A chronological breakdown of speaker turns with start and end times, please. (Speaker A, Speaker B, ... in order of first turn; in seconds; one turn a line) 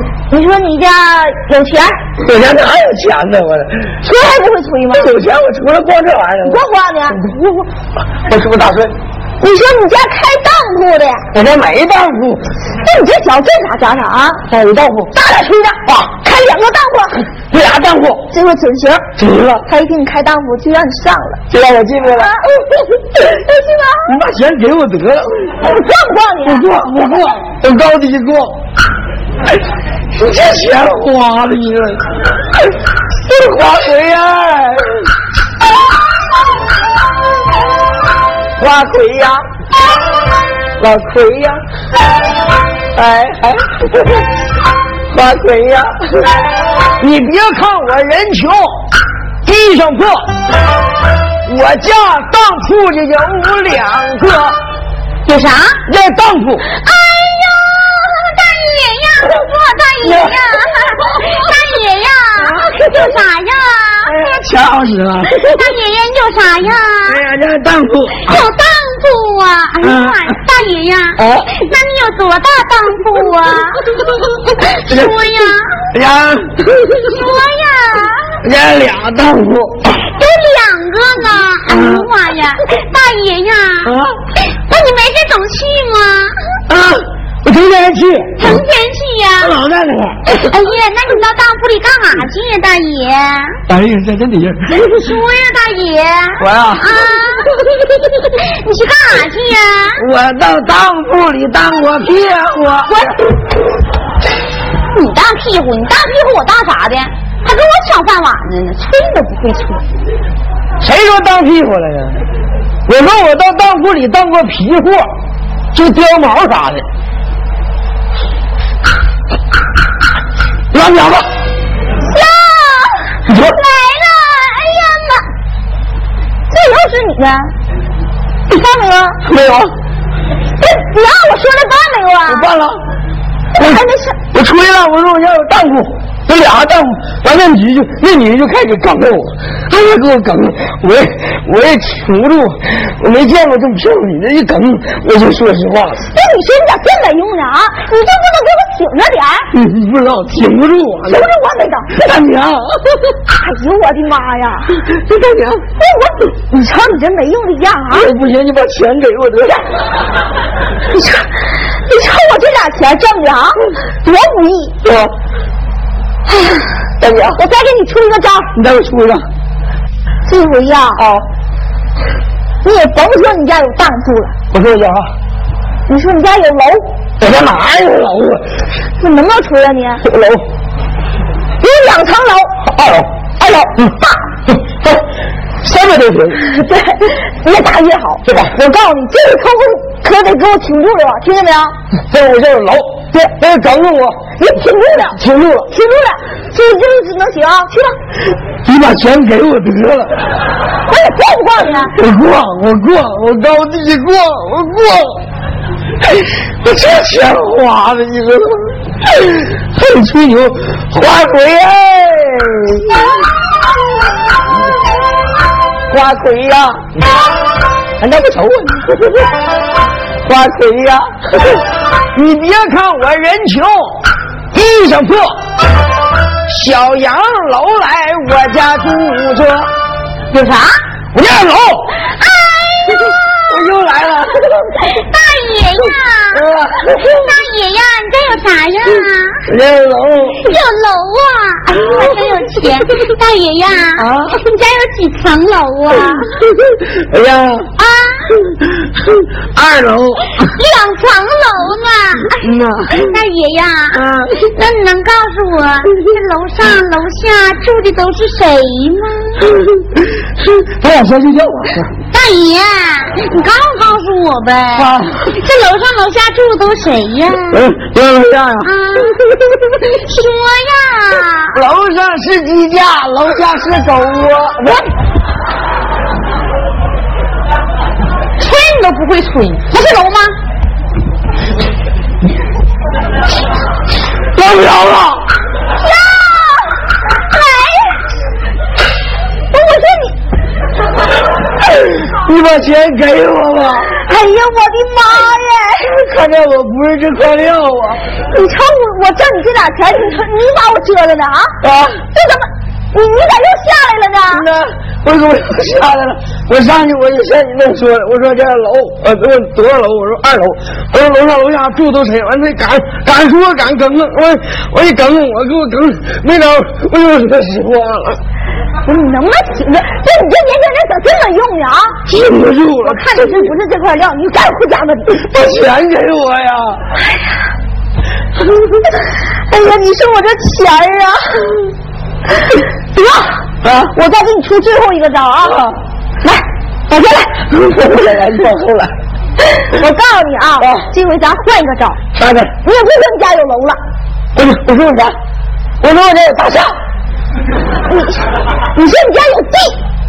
Speaker A: 0.3-2.0
Speaker B: 2.2-4.0
Speaker A: 4.0-5.1
Speaker B: 4.9-7.6
Speaker A: 6.4-7.4
Speaker B: 8.2-8.9
Speaker A: 9.4-11.3
Speaker B: 11.3-12.4
Speaker A: 12.8-14.4
Speaker B: 14.5-15.1
Speaker A: 15.1-17.3
Speaker B: 17.5-18.3
Speaker A: 18.3-19.1
Speaker B: 19.2-19.6
Speaker A: 19.6-21.4
Speaker B: 21.5-22.4
Speaker A: 22.2-24.1
Speaker B: 24.0-25.6
Speaker A: 25.6-26.7
Speaker B: 26.4-28.6
Speaker B: 30.1-32.0
Speaker B: 33.1-35.1
Speaker B: 38.6-39.4
Speaker B: 40.8-41.6
Speaker B: 42.9-44.3
Speaker B: 45.1-46.3
Speaker B: 47.0-48.9
Speaker B: 49.4-50.3
Speaker B: 51.5-54.6
Speaker C: 55.2-55.8
Speaker B: 55.9-56.6
Speaker C: 56.8-64.2
Speaker B: 60.0-61.4
Speaker B: 62.5-63.1
Speaker B: 64.0-65.6
Speaker C: 65.3-67.2
Speaker B: 67.0-68.4
Speaker C: 68.2-75.8
Speaker B: 69.8-70.2
Speaker B: 71.2-71.5
Speaker B: 74.8-75.1
Speaker B: 75.9-77.2
Speaker C: 77.0-78.4
Speaker B: 78.4-79.9
Speaker C: 80.0-83.9
Speaker B: 81.7-82.1
Speaker B: 83.8-84.2
Speaker C: 84.6-86.6
Speaker B: 86.7-88.6
Speaker C: 88.4-89.6
Speaker B: 89.4-90.5
Speaker C: 90.4-93.6
Speaker B: 93.7-95.0
Speaker C: 94.7-97.6
Speaker B: 96.4-97.0
Speaker C: 98.3-100.0
Speaker B: 100.0-103.1
Speaker C: 104.9-109.8
Speaker B: 110.8-112.2
Speaker B: 112.9-115.1
Speaker B: 115.7-116.8
Speaker B: 120.7-121.3
Speaker A: 122.0-125.2
Speaker B: 123.3-123.6
Speaker A: 126.5-127.5
Speaker A: 128.5-129.2
Speaker B: 129.2-129.7
Speaker A: 130.6-132.5
Speaker B: 132.3-132.8
Speaker A: 133.5-134.2
Speaker B: 133.6-146.0
Speaker A: 146.1-149.5
Speaker B: 149.5-151.3
Speaker A: 151.1-152.0
Speaker B: 151.9-153.2
Speaker A: 153.4-154.7
Speaker B: 154.8-155.6
Speaker A: 155.8-158.1
Speaker B: 157.9-159.7
Speaker A: 160.9-164.8
Speaker B: 164.8-165.1
Speaker A: 166.3-166.6
Speaker B: 167.0-167.4
Speaker A: 167.4-168.5
Speaker B: 168.5-169.2
Speaker A: 170.3-171.0
Speaker B: 170.9-171.2
Speaker A: 172.6-174.3
Speaker B: 174.5-175.1
Speaker A: 175.9-176.9
Speaker B: 177.2-178.4
Speaker A: 179.0-180.0
Speaker B: 180.0-180.4
Speaker A: 181.6-182.6
Speaker B: 182.6-183.1
Speaker A: 183.4-184.3
Speaker B: 185.6-186.4
Speaker A: 186.4-191.7
Speaker B: 192.1-194.3
Speaker A: 194.4-197.9
Speaker B: 195.1-195.7
Speaker B: 198.6-200.2
Speaker A: 200.9-201.9
Speaker B: 201.9-205.2
Speaker B: 206.1-213.2
Speaker B: 215.9-217.0
Speaker B: 218.0-219.3
Speaker B: 220.2-225.4
Speaker B: 226.4-229.7
Speaker C: 230.3-230.8
Speaker B: 231.1-231.9
Speaker C: 232.2-233.2
Speaker B: 233.4-234.7
Speaker C: 234.8-239.4
Speaker B: 236.3-237.3
Speaker B: 239.4-240.4
Speaker C: 240.4-246.3
Speaker B: 241.8-242.1
Speaker B: 243.9-244.4
Speaker B: 246.4-247.7
Speaker C: 247.8-248.3
Speaker B: 248.3-250.5
Speaker C: 250.4-259.5
Speaker B: 252.3-253.2
Speaker B: 253.9-254.5
Speaker B: 259.5-261.9
Speaker C: 262.1-267.6
Speaker B: 264.7-265.4
Speaker B: 267.5-269.8
Speaker C: 268.6-269.2
Speaker C: 269.9-271.6
Speaker B: 271.5-274.9
Speaker C: 278.4-280.4
Speaker B: 284.3-285.3
Speaker A: 285.8-288.0
Speaker A: 289.5-290.1
Speaker B: 291.6-293.9
Speaker A: 293.8-295.9
Speaker B: 295.8-298.0
Speaker A: 298.3-301.6
Speaker B: 301.6-302.0
Speaker A: 302.1-304.5
Speaker B: 304.3-318.2
Speaker A: 318.8-322.0
Speaker B: 322.1-323.5
Speaker A: 322.8-325.2
Speaker B: 325.2-326.8
Speaker A: 329.5-331.7
Speaker A: 332.9-335.6
Speaker B: 333.6-333.9
Speaker B: 335.4-335.7
Speaker A: 336.2-337.4
Speaker B: 337.5-338.9
Speaker A: 339.5-342.0
Speaker B: 340.6-340.9
Speaker B: 342.1-342.5
Speaker A: 342.6-343.8
Speaker B: 344.3-345.1
Speaker B: 345.8-346.7
Speaker A: 347.8-349.8